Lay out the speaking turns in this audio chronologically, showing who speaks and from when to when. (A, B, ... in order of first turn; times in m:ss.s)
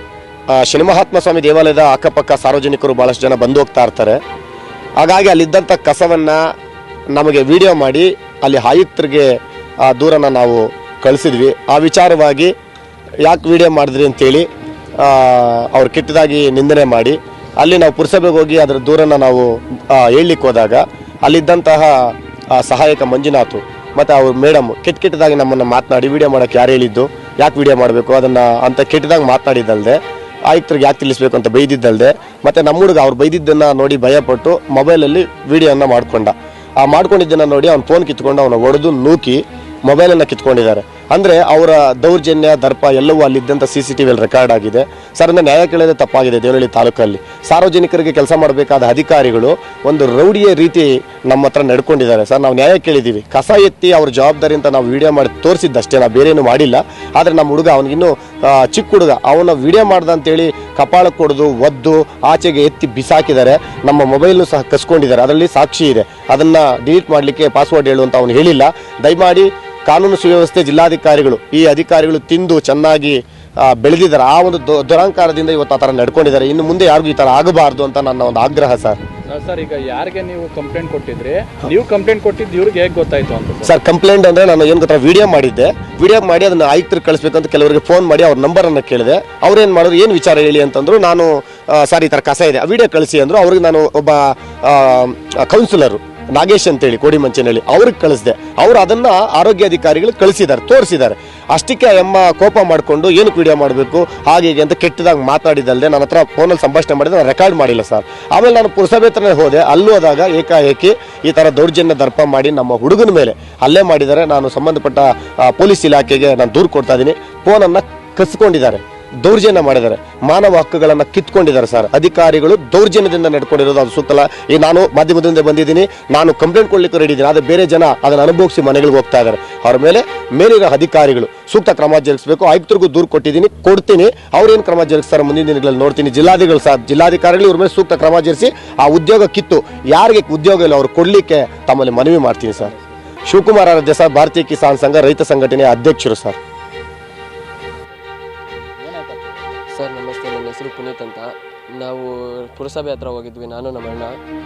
0:00.5-0:04.2 A
0:05.0-0:06.4 A
0:07.1-0:09.3 A
0:09.8-0:12.5 A
0:13.2-0:14.5 A
0:15.0-1:19.0 A
1:19.2-1:23.7 B
1:23.6-2:22.7 A
2:22.6-2:23.0 B
2:23.3-2:26.4 A
2:28.8-2:29.6 B
2:29.7-2:34.1 C